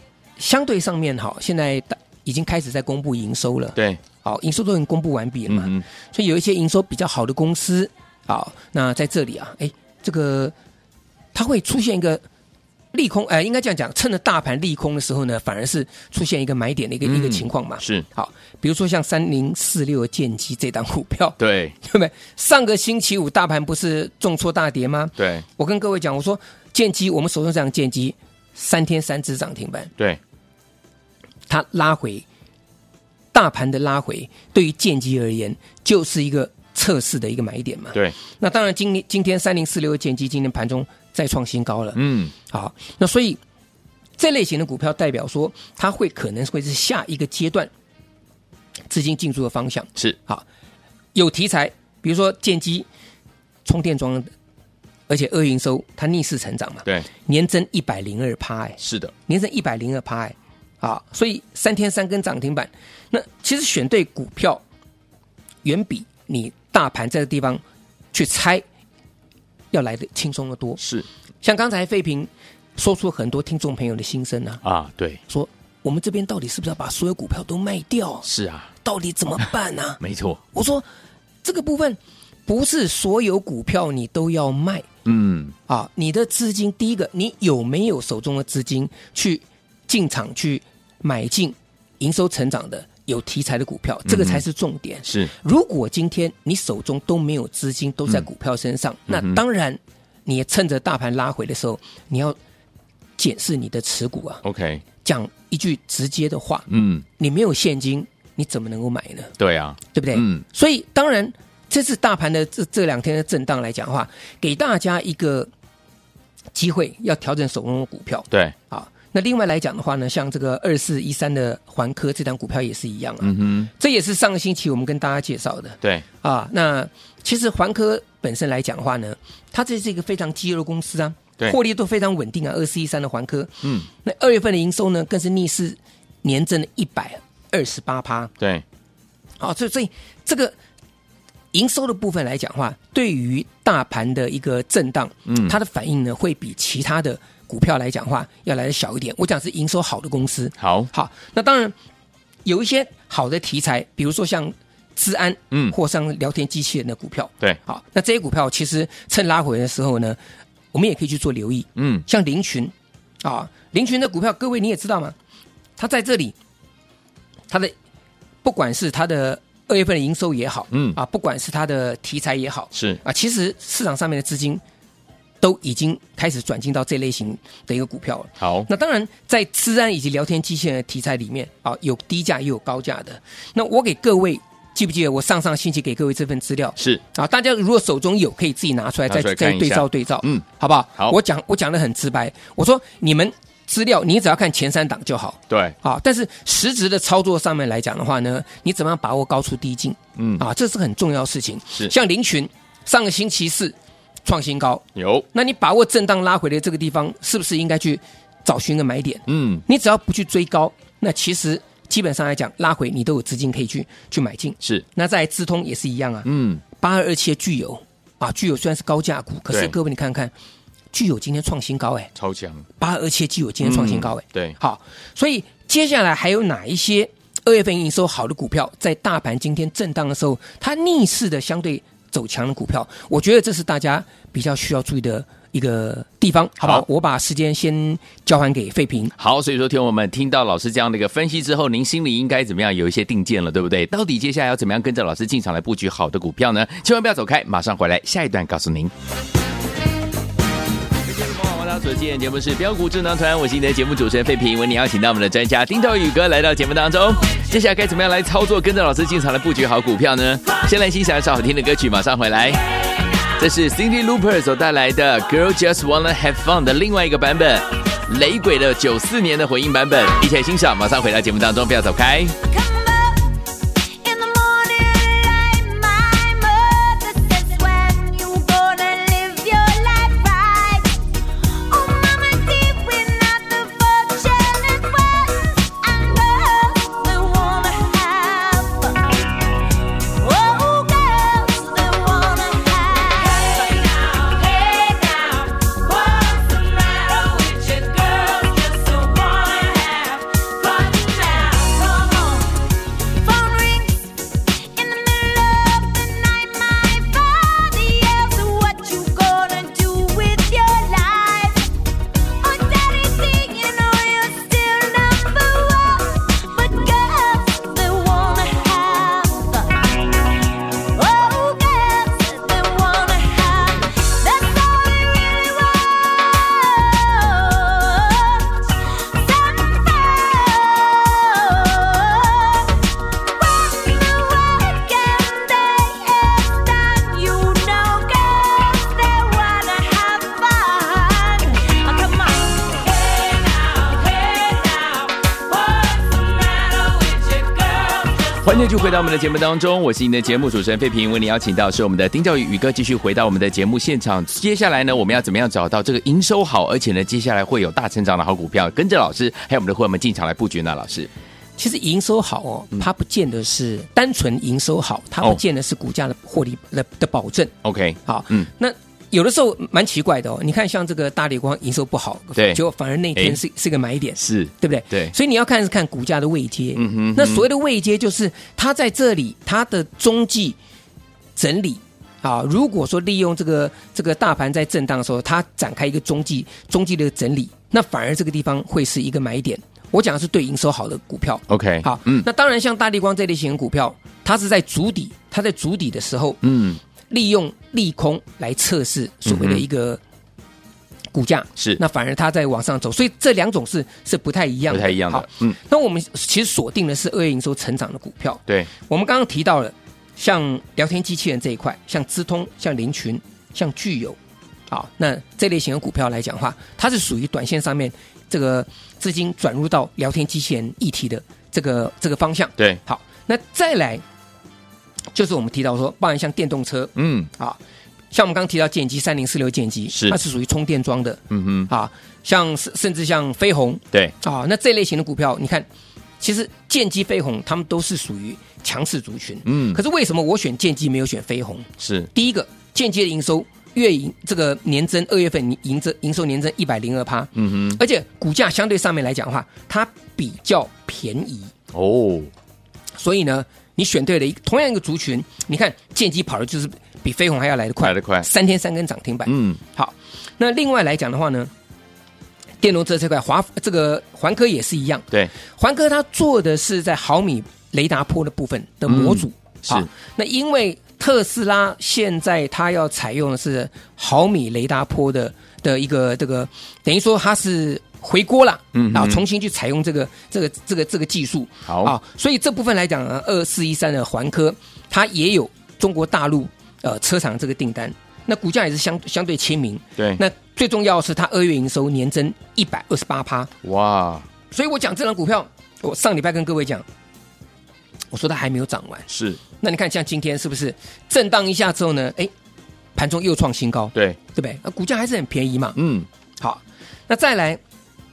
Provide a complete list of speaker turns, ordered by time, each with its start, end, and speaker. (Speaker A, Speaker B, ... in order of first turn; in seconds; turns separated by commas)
Speaker A: 0.4-10.5, Speaker B: 5.5-5.8, Speaker A: 11.3-12.2, Speaker A: 12.9-29.9, Speaker B: 17.0-18.1, Speaker B: 21.4-21.8, Speaker B: 25.2-25.4, Speaker A: 31.5-32.2, Speaker A: 33.3-43.4, Speaker B: 41.9-42.3, Speaker A: 44.2-47.7, Speaker A: 48.9-50.4, Speaker A: 51.1-52.9, Speaker A: 53.6-54.3, Speaker A: 55.1-64.6, Speaker B: 58.8-59.1, Speaker A: 65.6-67.6, Speaker A: 68.1-68.6, Speaker A: 69.7-70.8, Speaker B: 70.8-71.0, Speaker A: 71.4-74.6, Speaker B: 74.6-75.2, Speaker A: 75.3-78.2, Speaker B: 78.2-78.7, Speaker A: 78.8-80.0, Speaker B: 80.0-80.4, Speaker A: 80.5-80.8, Speaker A: 81.4-84.8, Speaker B: 85.0-85.5, Speaker A: 85.7-102.4, Speaker B: 94.0-94.4, Speaker B: 99.1-99.4, Speaker A: 103.2-104.4, Speaker B: 104.4-104.8, Speaker A: 105.0-106.7, Speaker B: 106.7-107.0, Speaker A: 107.2-109.3, Speaker B: 109.4-110.4, Speaker A: 109.9-115.5, Speaker A: 116.5-138.3, Speaker B: 123.2-123.7, Speaker A: 139.4-140.5, Speaker A: 141.5-151.7, Speaker B: 145.3-145.5, Speaker B: 150.6-150.9, Speaker A: 152.4-160.2, Speaker A: 160.7-165.2, Speaker B: 161.8-162.0, Speaker A: 165.8-166.3, Speaker A: 168.4-174.6, Speaker B: 170.7-171.0, Speaker B: 172.7-173.0, Speaker A: 175.4-220.3, Speaker B: 178.4-178.7, Speaker B: 189.1-190.4, Speaker B: 195.5-195.8, Speaker B: 200.2-200.4, Speaker B: 204.9-205.3, Speaker B: 209.3-209.6, Speaker B: 216.2-216.6, Speaker A: 220.9-222.1, Speaker B: 222.2-222.6, Speaker A: 222.8-239.1, Speaker B: 223.6-224.6, Speaker B: 239.2-248.9, Speaker B: 251.0-262.6, Speaker B: 263.3-272.4, Speaker C: 272.4-311.7, Speaker C: 312.3-348.2, Speaker B: 348.4-361.1, Speaker A: 361.6-367.5, Speaker B: 367.6-368.5, Speaker A: 368.1-380.6, Speaker B: 372.4-372.6, Speaker B: 374.2-375.1, Speaker B: 376.8-377.4, Speaker A: 381.4-396.4, Speaker B: 391.5-392.2, Speaker B: 396.4-396.8, Speaker A: 397.1-400.0, Speaker B: 399.2-399.6, Speaker A: 401.1-414.2, Speaker B: 404.7-405.6, Speaker A: 414.7-424.0, Speaker A: 425.1-427.6, Speaker B: 426.9-427.3, Speaker A: 428.1-435.7, Speaker B: 429.9-430.2, Speaker B: 431.3-431.7, Speaker A: 436.2-451.5, Speaker B: 439.4-439.8, Speaker B: 441.8-442.1, Speaker B: 447.4-447.8, Speaker B: 451.7-452.3, Speaker A: 453.0-461.5, Speaker B: 457.8-458.3, Speaker B: 459.2-459.6, Speaker A: 462.6-493.5, Speaker B: 468.9-469.9, Speaker B: 478.7-479.2, Speaker B: 481.7-481.9, Speaker B: 493.6-494.2, Speaker A: 494.5-496.8, Speaker A: 498.1-499.1, Speaker B: 499.1-499.4, Speaker A: 499.6-502.3, Speaker A: 502.9-505.8, Speaker B: 505.8-506.1, Speaker A: 506.4-507.6